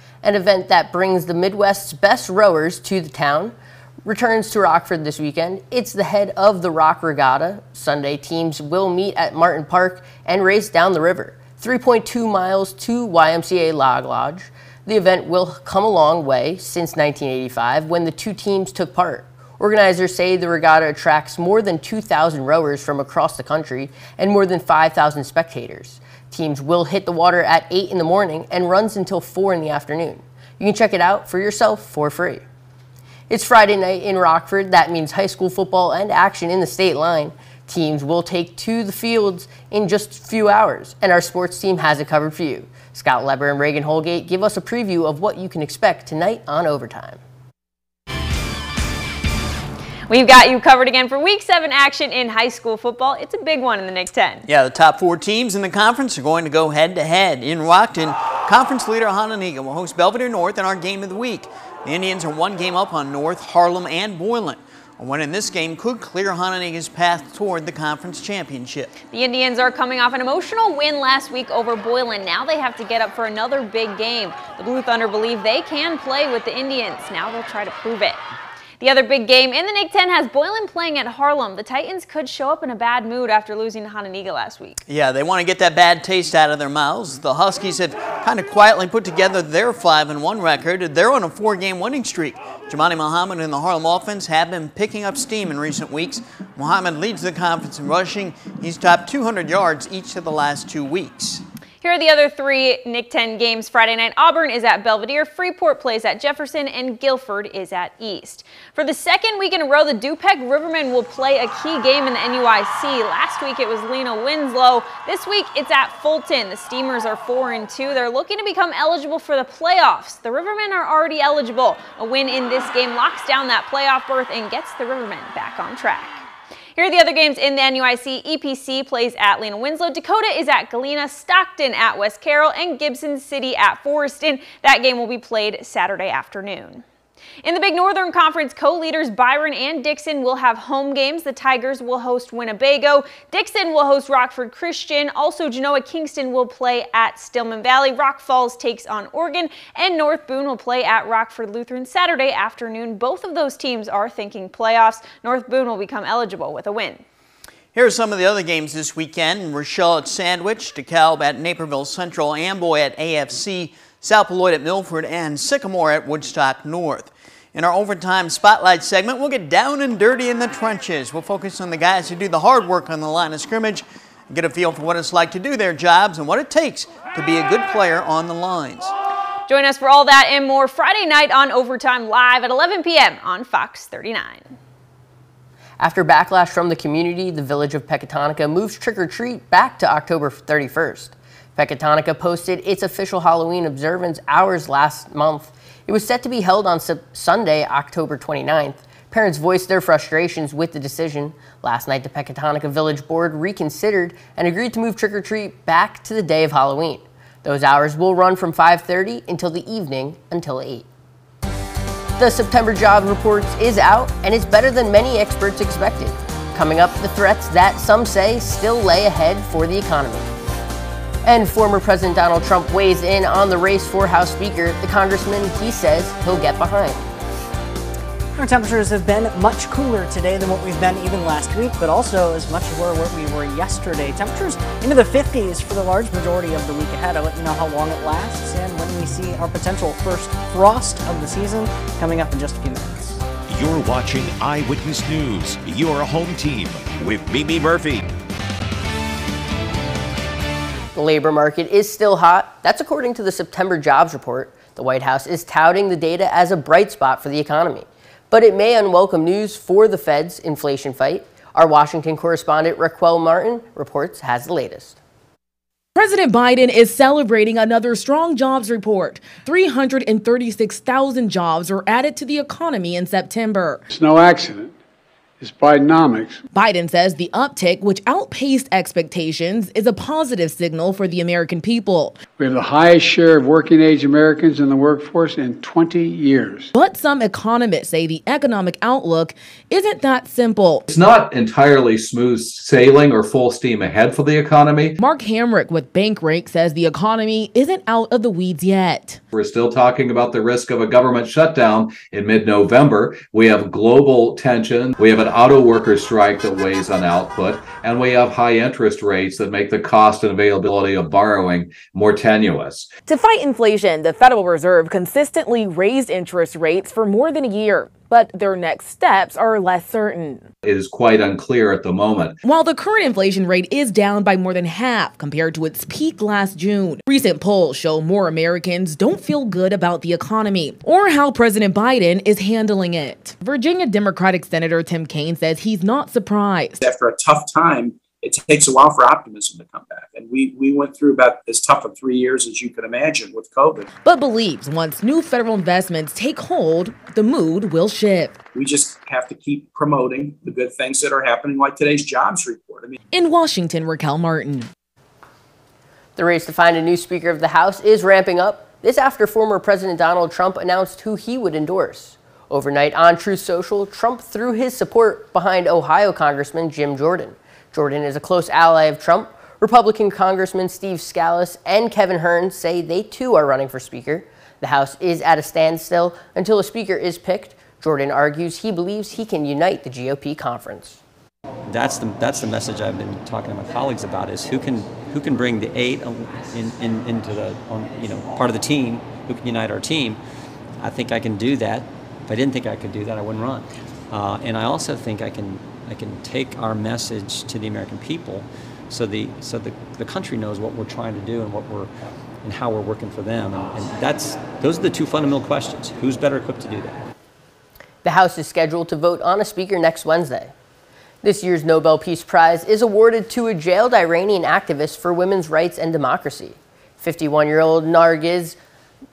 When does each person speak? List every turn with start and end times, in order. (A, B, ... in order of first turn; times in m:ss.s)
0:00.2-0:32.4 A
0:33.3-0:47.2 A
0:50.1-0:54.5 B
0:54.5-1:08.9 C
1:09.1-1:18.2 B
1:18.8-1:24.8 B
1:24.9-1:41.4 C
1:41.8-2:06.2 B
2:06.8-2:16.8 B
2:17.4-2:37.0 B
2:37.7-2:58.9 C
2:59.5-3:04.5 B
3:05.8-3:30.9 A
3:32.2-3:40.3 A
3:41.2-3:47.0 A
3:48.4-4:03.2 D
4:03.5-4:08.1 E
4:11.0-4:25.0 A
4:26.0-4:33.8 F
4:33.9-4:34.7 G
4:35.4-4:36.4 G
4:36.5-4:42.2 F
4:42.4-4:46.7 G
4:46.8-4:50.8 F
4:50.9-4:55.0 H
4:55.0-4:59.2 F
4:59.3-5:12.9 H
5:13.1-5:20.5 F
5:20.6-5:22.4 H
5:22.4-5:36.8 F
5:36.9-5:43.7 I
5:44.0-5:48.4 F
5:48.6-5:52.8 I
5:53.1-5:54.7 F
5:56.2-6:21.0 A
6:21.7-6:30.2 J
6:30.8-6:41.9 J
6:42.4-6:47.0 J
6:48.0-6:50.5 A
6:51.2-6:58.6 A